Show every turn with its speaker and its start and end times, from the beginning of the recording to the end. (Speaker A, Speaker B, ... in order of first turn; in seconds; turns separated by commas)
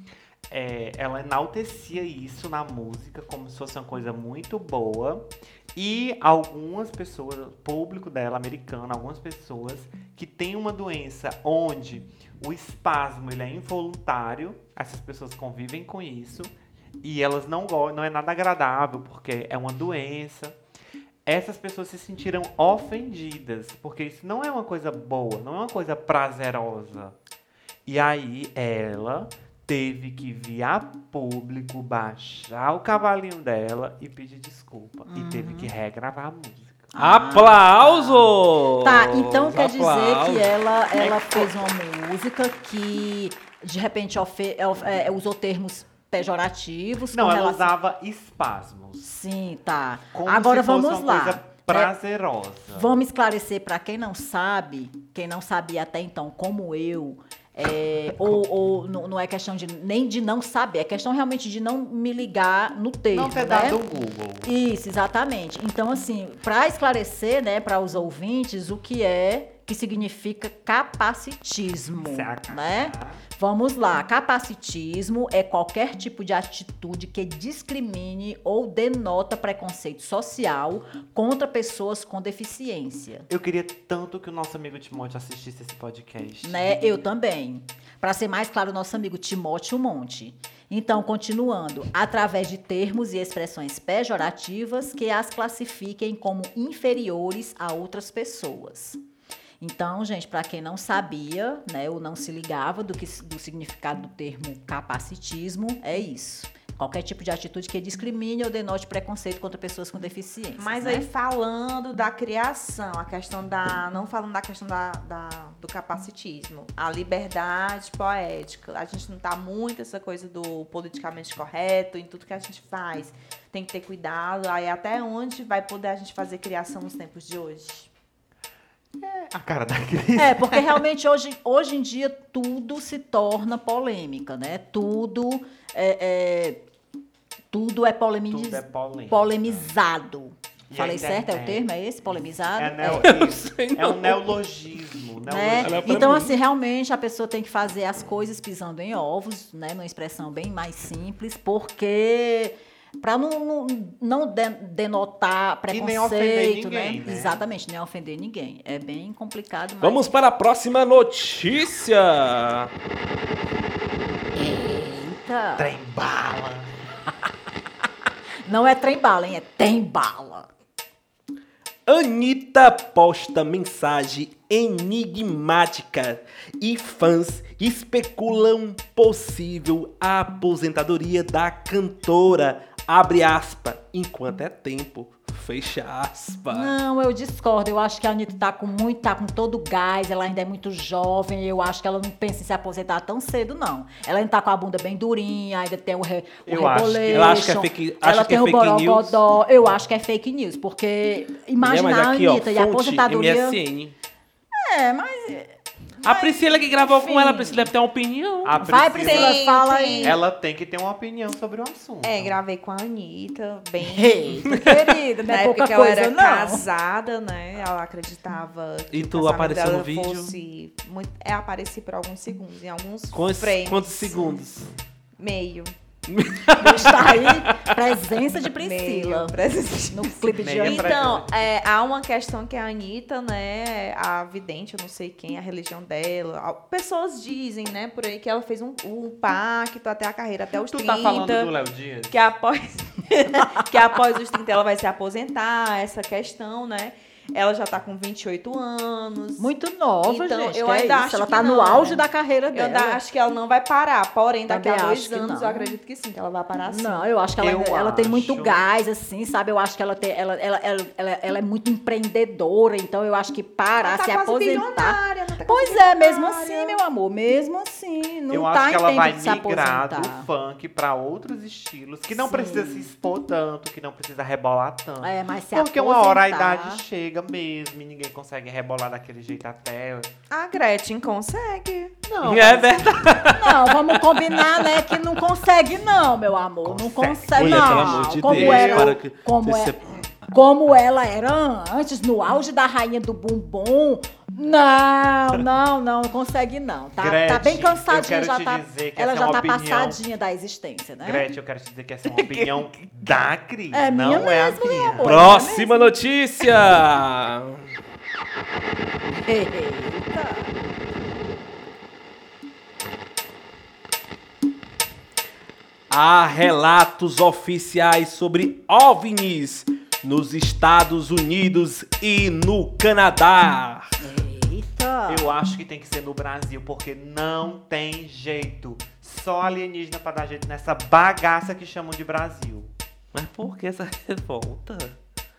Speaker A: 0.5-20.6, Speaker A: 21.2-27.2, Speaker A: 27.9-36.9, Speaker B: 35.1-35.7, Speaker B: 36.9-47.7, Speaker C: 37.0-40.5, Speaker A: 41.0-41.5, Speaker A: 47.1-49.0, Speaker B: 49.0-51.9, Speaker A: 50.1-53.0, Speaker B: 52.7-63.8, Speaker A: 63.1-64.5, Speaker B: 64.4-83.3, Speaker A: 72.0-73.2, Speaker A: 83.3-86.9, Speaker B: 86.4-99.0, Speaker B: 99.6-111.1, Speaker D: 110.6-127.9, Speaker A: 129.0-130.8, Speaker B: 130.2-136.6, Speaker B: 137.5-143.1, Speaker A: 138.3-139.7, Speaker A: 140.7-141.6, Speaker A: 142.5-146.3, Speaker C: 143.0-144.4, Speaker B: 145.2-160.1, Speaker C: 145.6-146.3, Speaker A: 155.7-157.4, Speaker C: 159.8-162.7, Speaker B: 164.3-165.7, Speaker A: 165.6-166.7, Speaker B: 168.4-170.5, Speaker C: 171.9-186.7, Speaker B: 186.5-203.6, Speaker A: 196.4-197.6, Speaker C: 197.1-199.2, Speaker C: 201.6-203.9, Speaker B: 204.5-207.7, Speaker C: 206.0-208.6, Speaker A: 208.4-209.4, Speaker B: 208.6-210.2, Speaker D: 209.0-210.2, Speaker A: 210.0-212.4, Speaker D: 212.0-214.4, Speaker B: 213.8-216.6, Speaker C: 214.5-214.7, Speaker D: 215.3-224.4, Speaker C: 218.9-220.3, Speaker C: 223.1-224.7, Speaker D: 225.2-225.7, Speaker C: 226.1-227.7, Speaker B: 226.6-229.3, Speaker D: 228.6-241.5, Speaker B: 229.9-231.1, Speaker A: 230.4-231.5, Speaker A: 240.7-242.2, Speaker D: 242.1-249.5, Speaker B: 249.4-253.0, Speaker D: 250.0-257.1, Speaker B: 254.5-255.8, Speaker B: 256.7-270.3, Speaker A: 257.4-258.6, Speaker D: 263.8-266.8, Speaker A: 268.3-280.1, Speaker B: 272.1-272.9, Speaker B: 275.0-276.8, Speaker D: 280.3-281.9, Speaker A: 282.1-283.2, Speaker C: 282.2-285.2, Speaker B: 283.4-289.8, Speaker A: 286.6-289.0, Speaker C: 287.3-289.8, Speaker B: 290.3-301.3, Speaker A: 297.0-300.0, Speaker A: 301.0-305.3, Speaker D: 302.1-302.6, Speaker B: 303.7-305.8, Speaker C: 305.0-307.7, Speaker B: 309.1-310.5, Speaker C: 315.9-324.0, Speaker B: 324.0-325.4, Speaker A: 325.1-332.7, Speaker C: 333.1-335.0